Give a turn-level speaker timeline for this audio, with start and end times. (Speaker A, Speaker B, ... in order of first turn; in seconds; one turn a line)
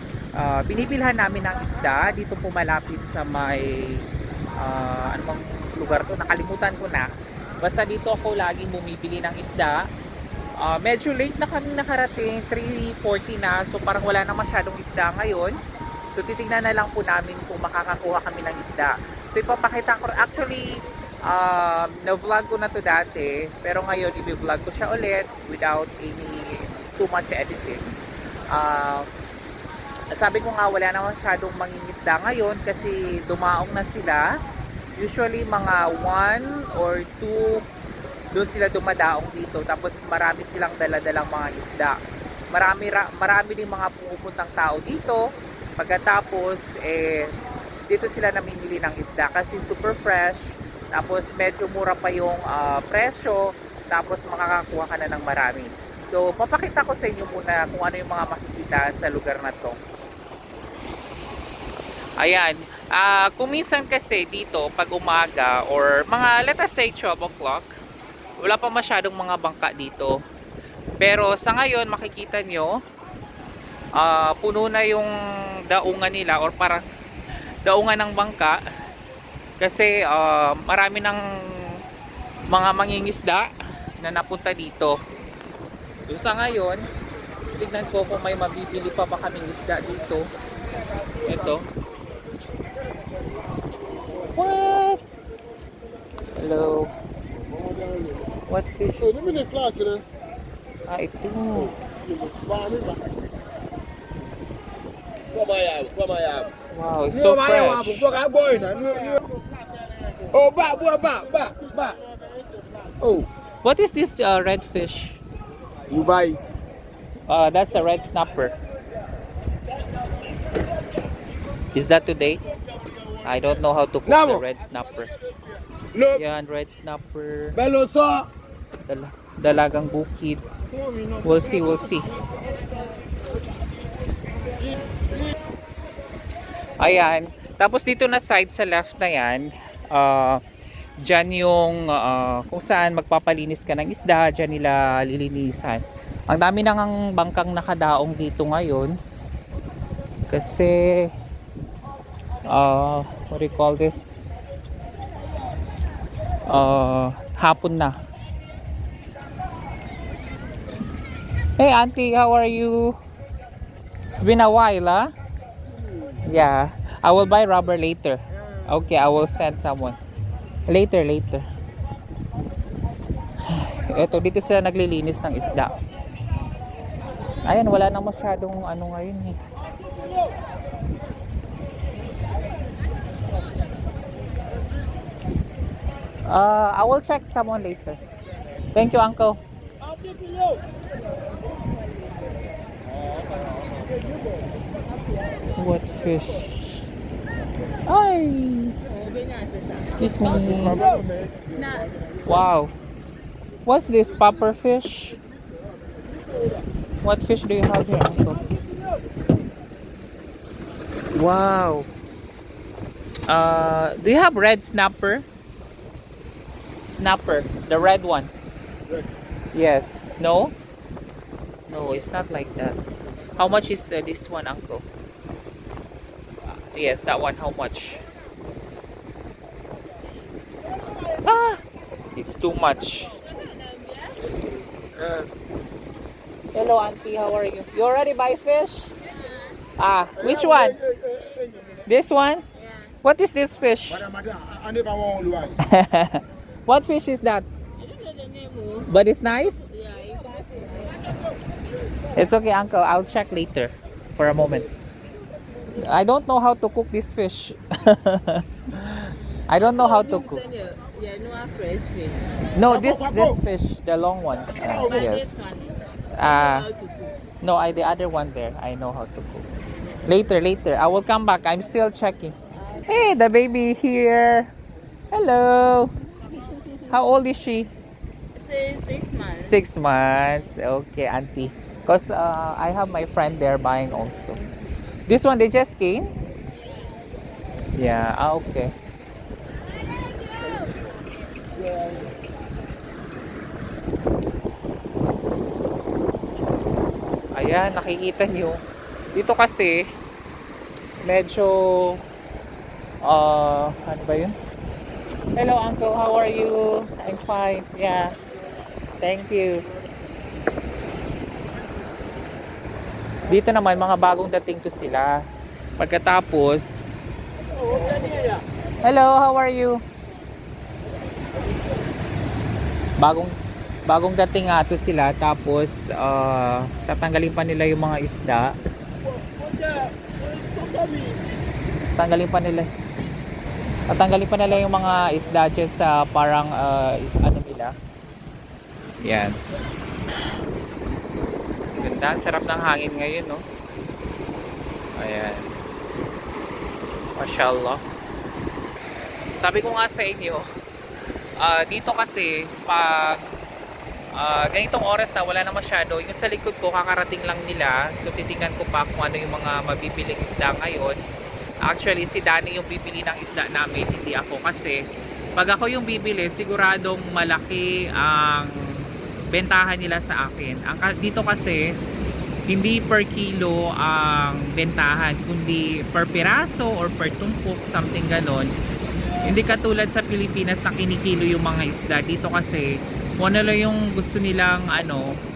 Speaker A: 0.4-4.0
Speaker A: 4.6-7.1
Speaker A: 7.6-9.8
Speaker A: 10.6-15.6
Speaker A: 16.1-20.6
Speaker A: 21.3-27.8
Speaker A: 28.5-29.1
Speaker A: 30.1-34.2
Speaker A: 35.0-37.6
Speaker A: 38.3-42.0
Speaker A: 42.5-45.2
Speaker A: 45.8-47.3
Speaker A: 47.9-59.8
Speaker A: 62.2-67.7
Speaker A: 68.4-70.2
Speaker A: 71.0-72.7
Speaker A: 74.0-75.1
Speaker A: 75.7-76.8
Speaker A: 77.7-78.6
Speaker A: 79.6-81.2
Speaker A: 82.5-83.5
Speaker A: 84.0-85.0
Speaker A: 86.1-86.8
Speaker A: 87.6-90.2
Speaker A: 91.2-91.6
Speaker A: 94.2-95.0
Speaker A: 96.4-96.9
Speaker A: 98.5-99.5
Speaker A: 100.9-101.8
Speaker B: 105.3-106.5
Speaker A: 106.7-107.9
Speaker B: 107.1-109.2
Speaker B: 110.3-112.0
Speaker B: 113.0-113.3
Speaker A: 113.6-115.2
Speaker B: 115.9-116.4
Speaker A: 117.3-118.5
Speaker A: 121.7-122.4
Speaker A: 123.2-125.1
Speaker B: 124.1-124.4
Speaker B: 125.9-126.2
Speaker A: 126.1-127.6
Speaker B: 127.5-128.3
Speaker A: 128.9-130.4
Speaker A: 131.2-132.1
Speaker A: 136.8-140.4
Speaker A: 141.0-148.9
Speaker A: 150.3-151.1
Speaker A: 152.5-154.3
Speaker A: 156.5-157.9
Speaker A: 161.6-163.0
Speaker A: 164.1-165.1
Speaker A: 166.3-170.0
Speaker A: 170.7-171.4
Speaker A: 173.5-175.7
Speaker A: 177.4-179.4
Speaker A: 186.3-188.0
Speaker A: 188.8-189.4
Speaker A: 195.6-196.8
Speaker A: 197.9-198.8
Speaker C: 199.2-199.6
Speaker A: 199.8-200.8
Speaker C: 201.5-201.9
Speaker A: 202.2-202.7
Speaker A: 203.7-205.2
Speaker A: 207.0-208.4
Speaker A: 211.2-211.9
Speaker A: 213.3-215.3
Speaker A: 216.9-218.3
Speaker A: 219.5-220.5
Speaker A: 221.7-222.8
Speaker A: 223.4-224.8
Speaker A: 226.5-228.0
Speaker A: 231.3-231.6
Speaker A: 232.2-233.2
Speaker C: 233.4-234.1
Speaker B: 235.0-235.2
Speaker A: 236.5-238.9
Speaker A: 239.8-240.8
Speaker A: 241.9-242.4
Speaker A: 243.0-244.1
Speaker A: 245.6-247.4
Speaker C: 247.9-248.8
Speaker A: 248.8-249.7
Speaker C: 249.9-251.0
Speaker A: 252.2-254.7
Speaker A: 255.8-260.4
Speaker C: 260.3-262.3
Speaker A: 262.6-265.5
Speaker A: 266.2-266.7
Speaker A: 267.4-269.5
Speaker A: 270.1-272.4
Speaker A: 272.9-274.5
Speaker A: 275.1-275.9
Speaker A: 276.9-277.7
Speaker C: 278.4-279.5
Speaker A: 279.4-284.4
Speaker A: 285.1-286.1
Speaker A: 287.8-288.7
Speaker A: 297.4-298.6
Speaker A: 299.1-299.8
Speaker A: 301.0-302.0
Speaker A: 303.1-304.4
Speaker A: 305.4-308.1
Speaker A: 309.0-309.6
Speaker A: 313.3-315.1
Speaker A: 315.8-316.9
Speaker A: 318.8-319.8
Speaker A: 323.0-323.3
Speaker A: 323.9-328.5
Speaker B: 330.6-331.1
Speaker A: 331.9-332.7
Speaker A: 333.9-337.7
Speaker A: 339.0-339.4
Speaker A: 341.7-343.4
Speaker A: 345.0-345.5
Speaker A: 347.2-347.8
Speaker A: 349.4-350.4
Speaker A: 351.4-353.2
Speaker A: 354.2-361.0
Speaker A: 361.6-364.8
Speaker A: 365.4-368.5
Speaker A: 369.3-371.6
Speaker A: 372.5-378.5
Speaker A: 379.2-382.7
Speaker A: 383.2-385.1